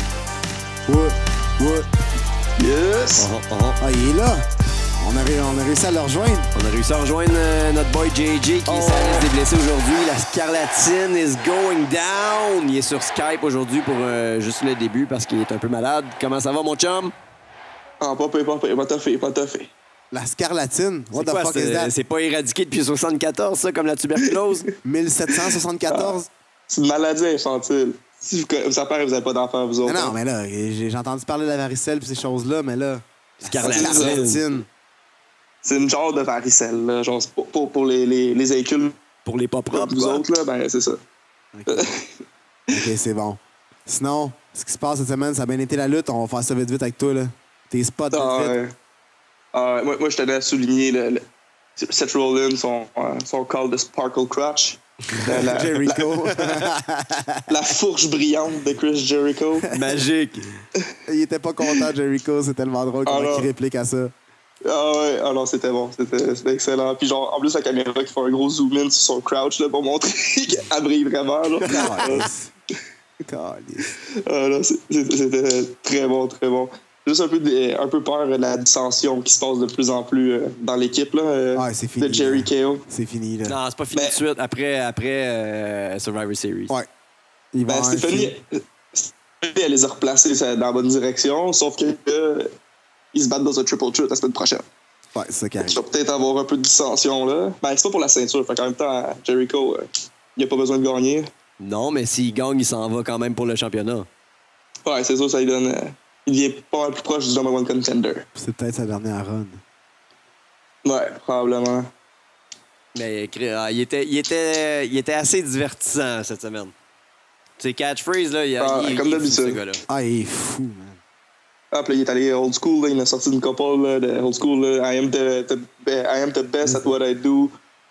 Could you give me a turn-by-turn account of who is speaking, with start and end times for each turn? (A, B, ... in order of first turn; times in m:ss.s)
0:00.9-0:01.9 A
0:02.6-0:03.3 B
0:03.2-0:03.8 C
0:03.8-0:04.5 A
0:05.0-0:06.5 A
0:06.6-0:17.1 C
0:08.7-0:09.3 B
0:18.0-0:19.7 B
0:20.1-0:21.9 A
0:21.1-0:24.7 C
0:24.8-0:26.3 A
0:25.9-0:26.2 B
0:26.7-0:30.1 B
0:29.8-0:34.7 A
0:33.4-0:34.4 C
0:33.6-0:34.2 B
0:35.6-0:39.0 B
0:39.2-0:40.2 C
0:39.7-0:41.0 B
0:41.5-0:41.9 A
0:41.7-0:42.2 B
0:42.7-0:48.6 A
0:48.1-0:48.7 B
0:49.5-0:51.2 B
0:51.8-0:56.0 B
0:55.2-0:57.5 A
0:57.5-0:59.7 B
0:59.7-1:00.5 C
1:01.1-1:04.1 A
1:03.1-1:03.5 B
1:04.6-1:12.3 B
1:11.6-1:12.5 A
1:13.2-1:13.9 A
1:14.2-1:22.8 B
1:21.6-1:23.6 A
1:23.5-1:26.7 C
1:27.5-1:28.3 A
1:27.7-1:32.5 B
1:33.1-1:34.7 B
1:35.1-1:35.8 A
1:35.6-1:41.3 B
1:41.6-1:44.1 C
1:44.9-1:48.2 B
1:48.4-1:49.6 A
1:50.8-1:51.9 B
1:52.9-1:56.7 C
1:57.6-1:59.8 C
1:58.6-1:59.6 B
1:59.9-2:01.0 A
2:01.7-2:07.5 B
2:06.6-2:06.9 A